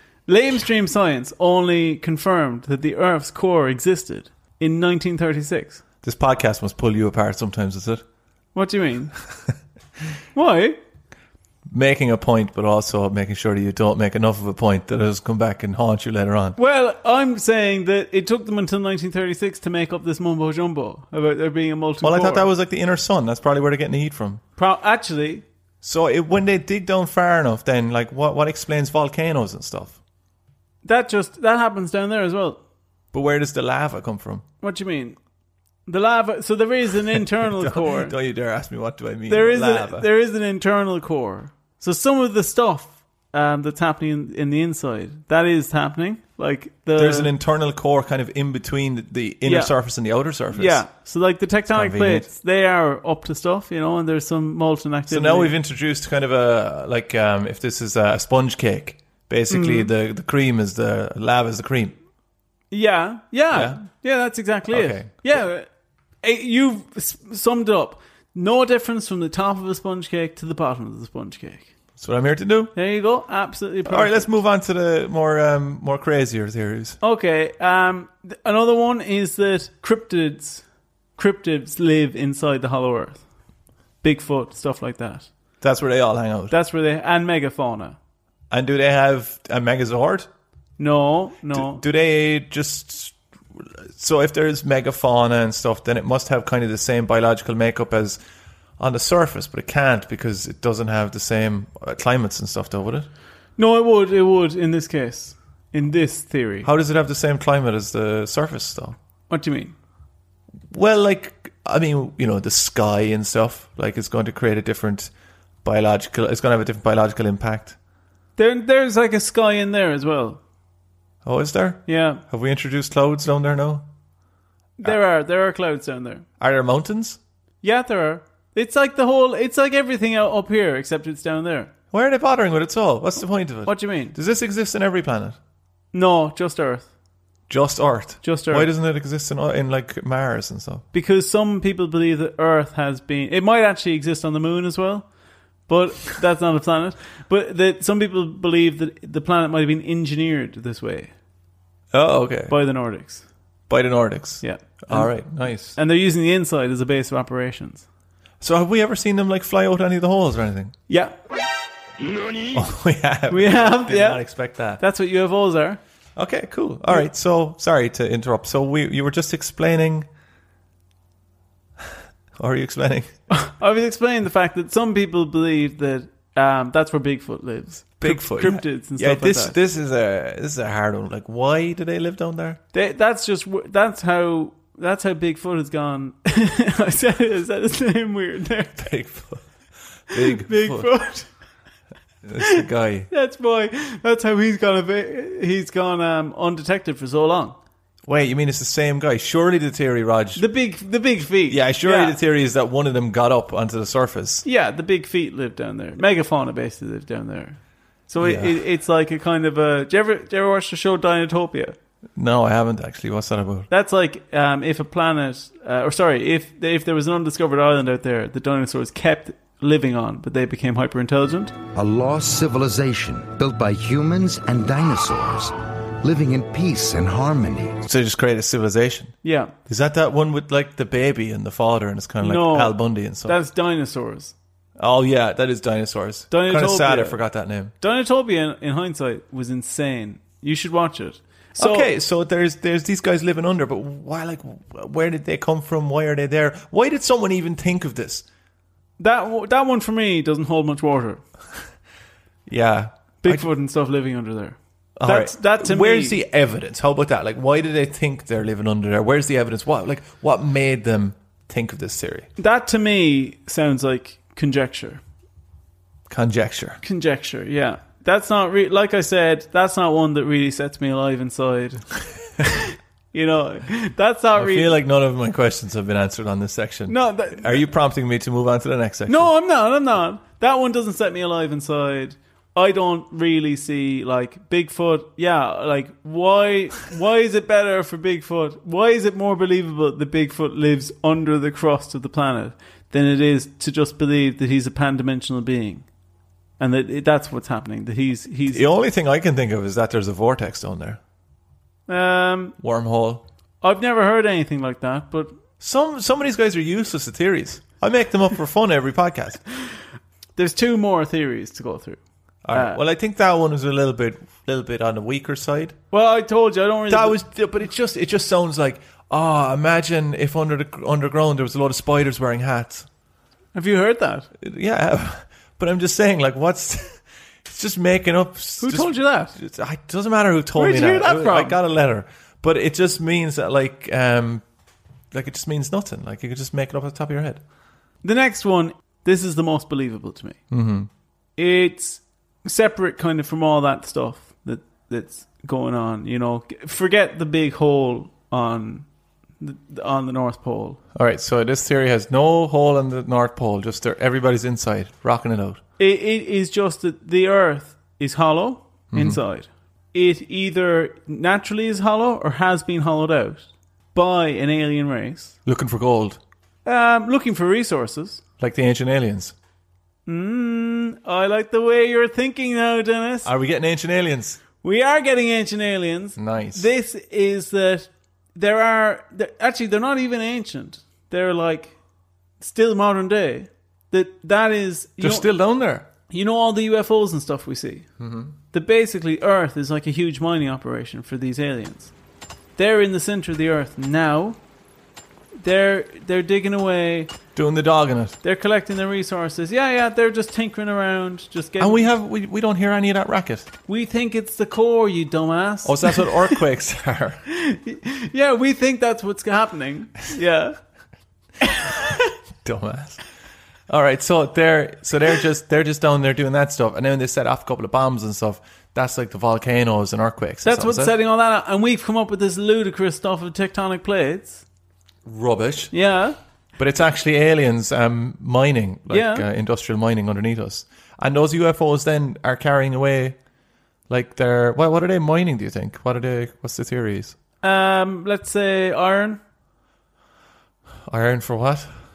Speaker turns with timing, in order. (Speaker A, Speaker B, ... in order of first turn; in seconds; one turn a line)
Speaker A: 0.3-5.8
Speaker B: 6.0-8.0
Speaker A: 8.5-9.1
Speaker A: 10.3-10.8
Speaker B: 11.7-16.6
Speaker A: 16.6-22.5
Speaker B: 22.0-24.4
Speaker A: 24.6-25.4
Speaker B: 25.8-30.0
Speaker A: 30.9-32.6
Speaker B: 33.1-34.4
Speaker A: 34.6-35.2
Speaker A: 35.9-38.1
Speaker B: 37.6-40.1
Speaker A: 39.3-47.3
Speaker B: 47.0-50.9
Speaker A: 49.5-49.7
Speaker A: 50.5-55.5
Speaker B: 51.7-52.3
Speaker B: 55.1-62.0
Speaker A: 59.5-59.9
Speaker A: 62.7-65.7
Speaker B: 63.5-63.8
Speaker B: 64.7-65.2
Speaker A: 66.2-71.7
Speaker B: 72.0-72.7
Speaker A: 72.8-74.3
Speaker B: 73.9-77.0
Speaker A: 77.0-80.6
Speaker A: 81.2-83.2
Speaker A: 84.0-85.3
Speaker B: 85.6-86.5
Speaker A: 86.5-88.0
Speaker B: 88.5-90.3
Speaker A: 90.8-91.8
Speaker B: 91.5-93.2
Speaker B: 93.8-98.2
Speaker B: 98.8-103.1
Speaker A: 103.6-106.7
Speaker B: 106.6-109.0
Speaker A: 109.3-109.7
Speaker B: 110.7-115.1
Speaker B: 115.6-117.8
Speaker A: 118.4-120.4
Speaker B: 121.2-123.8
Speaker A: 121.9-122.2
Speaker A: 124.8-126.3
Speaker B: 126.4-127.2
Speaker A: 127.6-131.7
Speaker B: 131.9-135.4
Speaker A: 133.7-134.2
Speaker A: 135.9-136.9
Speaker B: 137.5-140.8
Speaker A: 138.2-138.7
Speaker A: 140.9-145.1
Speaker A: 145.7-151.1
Speaker B: 151.9-152.6
Speaker A: 152.5-153.2
Speaker B: 153.7-155.8
Speaker A: 154.4-157.8
Speaker B: 158.4-160.8
Speaker A: 160.9-161.2
Speaker B: 162.5-164.8
Speaker A: 163.3-164.2
Speaker A: 164.8-165.8
Speaker B: 166.2-170.1
Speaker B: 172.4-173.1
Speaker A: 173.3-179.6
Speaker B: 178.0-182.6
Speaker A: 182.7-188.8
Speaker B: 188.8-189.5
Speaker B: 190.1-190.9
Speaker A: 190.1-191.3
Speaker B: 192.2-193.1
Speaker A: 192.4-197.6
Speaker B: 198.1-200.4
Speaker A: 200.4-202.2
Speaker B: 201.5-204.4
Speaker A: 204.4-211.8
Speaker B: 208.2-208.6
Speaker B: 212.2-213.7
Speaker A: 213.7-221.5
Speaker C: 221.8-227.8
Speaker B: 227.8-229.2
Speaker A: 229.2-229.5
Speaker B: 229.7-233.4
Speaker A: 232.2-234.3
Speaker B: 234.8-237.7
Speaker A: 236.3-237.2
Speaker A: 237.8-241.9
Speaker B: 241.6-248.2
Speaker A: 249.0-251.2
Speaker B: 252.5-253.5
Speaker A: 253.2-256.2
Speaker B: 255.0-262.3
Speaker A: 262.4-265.0
Speaker B: 266.1-266.8
Speaker A: 266.8-271.9
Speaker A: 272.4-274.7
Speaker B: 274.4-279.3
Speaker A: 276.9-277.6
Speaker A: 279.1-295.9
Speaker A: 296.6-298.6
Speaker B: 298.5-301.0
Speaker A: 301.9-302.6
Speaker B: 302.6-303.2
Speaker A: 303.6-305.4
Speaker B: 305.6-309.4
Speaker A: 310.4-312.0
Speaker B: 312.4-315.8
Speaker A: 312.5-312.8
Speaker A: 315.9-317.2
Speaker B: 316.9-322.9
Speaker A: 323.5-324.3
Speaker B: 324.4-334.4
Speaker A: 328.6-329.4
Speaker A: 330.6-331.6
Speaker B: 335.1-337.4
Speaker A: 338.0-340.4
Speaker B: 340.5-340.9
Speaker A: 341.4-348.9
Speaker A: 349.4-350.8
Speaker B: 350.9-355.6
Speaker A: 355.8-365.4
Speaker B: 358.9-359.2
Speaker B: 365.5-366.2
Speaker A: 366.6-368.2
Speaker B: 368.4-369.3
Speaker A: 370.1-373.3
Speaker B: 373.2-374.4
Speaker A: 374.6-381.7
Speaker B: 376.2-376.6
Speaker A: 382.4-385.3
Speaker B: 385.0-385.9
Speaker A: 386.1-387.9
Speaker B: 388.0-388.3
Speaker A: 388.5-391.9
Speaker A: 392.6-394.4
Speaker A: 395.4-397.1
Speaker B: 397.4-398.2
Speaker A: 398.2-401.9
Speaker B: 401.6-403.5
Speaker A: 403.7-406.4
Speaker B: 405.6-407.2
Speaker A: 407.3-410.6
Speaker A: 411.4-412.0
Speaker B: 412.4-413.0
Speaker B: 413.7-420.9
Speaker A: 420.4-424.4
Speaker B: 425.1-425.7
Speaker A: 425.7-426.2
Speaker B: 426.6-433.2
Speaker A: 428.9-429.3
Speaker B: 433.9-437.2
Speaker A: 437.4-439.2
Speaker B: 440.9-441.7